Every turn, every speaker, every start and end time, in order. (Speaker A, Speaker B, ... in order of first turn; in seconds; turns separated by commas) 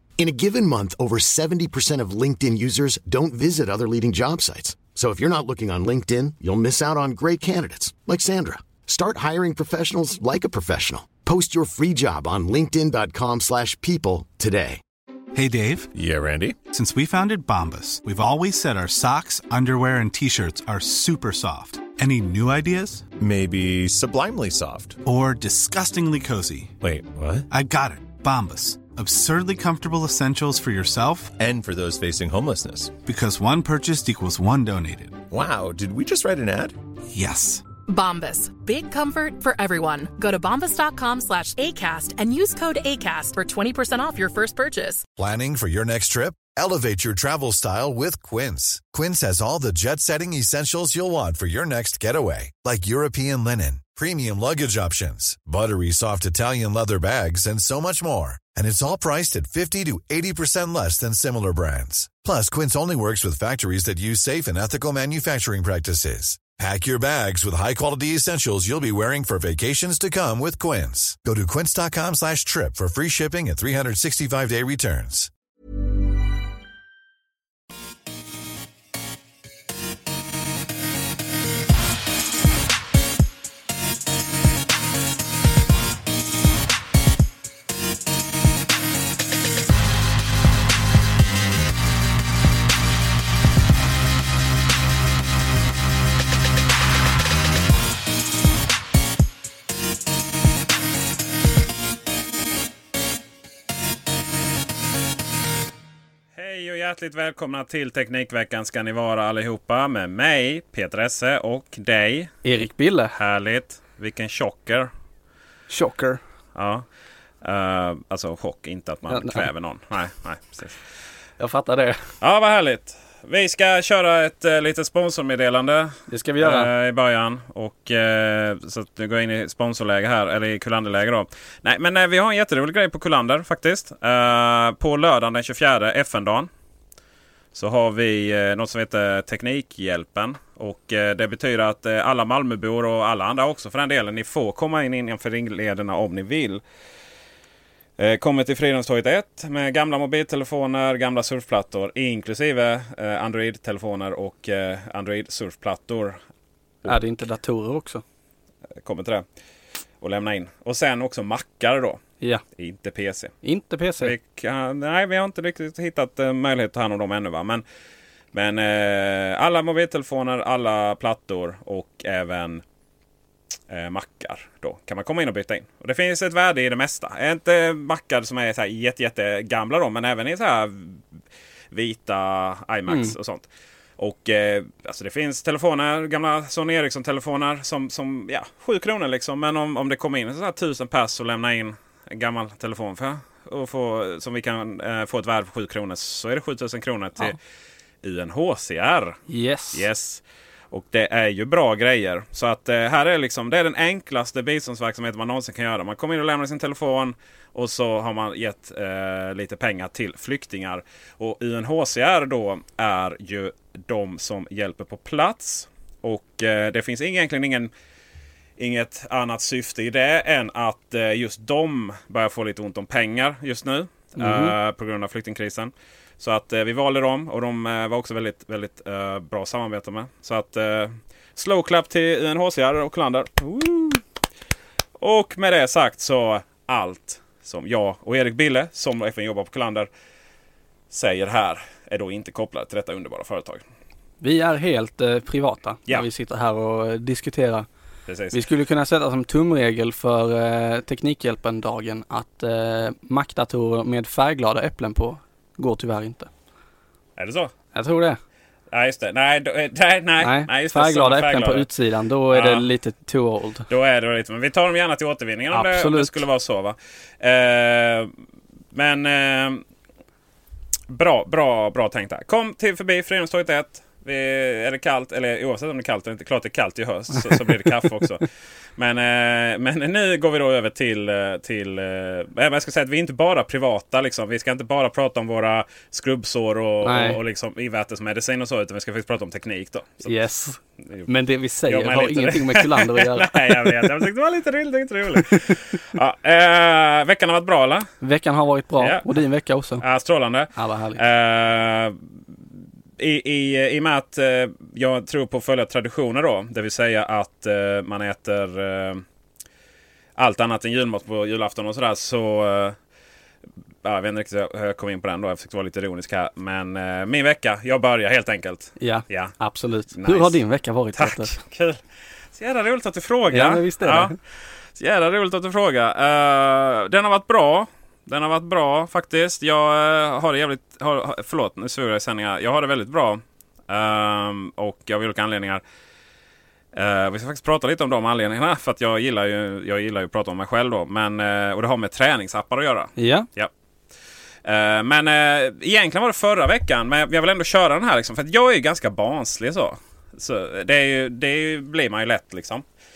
Speaker A: 0.2-14.8, Speaker B: 15.3-15.9, Speaker C: 15.9-16.6, Speaker B: 16.7-23.1, Speaker C: 23.2-25.0, Speaker B: 25.0-26.8, Speaker C: 26.8-27.5, Speaker B: 27.5-31.3, Speaker C: 31.4-33.0, Speaker B: 33.0-35.2, Speaker C: 35.3-36.7, Speaker B: 37.1-37.6, Speaker D: 37.9-45.0, Speaker E: 45.2-75.3, Speaker F: 106.3-112.3, Speaker G: 112.4-113.2, Speaker F: 113.2-114.9, Speaker G: 115.7-116.2, Speaker F: 116.5-116.8, Speaker F: 117.4-120.8, Speaker G: 119.1-119.5, Speaker G: 121.4-122.0, Speaker F: 122.2-136.5, Speaker G: 126.1-126.7, Speaker F: 137.5-146.6, Speaker F: 148.0-156.2, Speaker G: 156.8-158.0, Speaker F: 158.8-159.2, Speaker F: 160.0-162.0, Speaker F: 162.6-163.3, Speaker G: 163.4-164.1, Speaker F: 164.0-167.6, Speaker F: 168.3-172.6, Speaker F: 173.7-181.0, Speaker F: 181.7-183.5, Speaker G: 182.9-183.1, Speaker F: 184.0-197.3, Speaker F: 198.0-199.2, Speaker G: 199.3-199.8, Speaker F: 199.7-217.7, Speaker F: 218.6-234.0, Speaker G: 224.2-224.5, Speaker F: 235.0-239.9, Speaker F: 240.9-243.6, Speaker G: 244.2-247.7, Speaker F: 248.1-248.4, Speaker G: 248.3-256.3, Speaker F: 257.2-257.5, Speaker G: 257.7-258.2, Speaker F: 258.7-261.7, Speaker G: 260.2-263.7, Speaker F: 262.3-262.6, Speaker F: 263.7-268.1, Speaker G: 265.5-266.2, Speaker F: 268.7-269.6, Speaker F: 270.9-290.1, Speaker G: 286.8-287.2, Speaker G: 290.0-293.9, Speaker F: 290.8-291.1, Speaker F: 291.6-297.9, Speaker G: 298.0-299.8, Speaker F: 298.8-299.0, Speaker F: 299.8-302.0, Speaker G: 300.6-301.0, Speaker F: 303.0-309.0, Speaker F: 310.2-312.8, Speaker F: 313.8-319.4, Speaker G: 318.8-321.3, Speaker F: 319.9-320.4, Speaker F: 320.9-321.8, Speaker F: 322.4-324.1, Speaker G: 323.3-324.1, Speaker F: 324.8-335.6, Speaker F: 336.7-343.5, Speaker G: 343.0-343.3, Speaker F: 344.4-352.6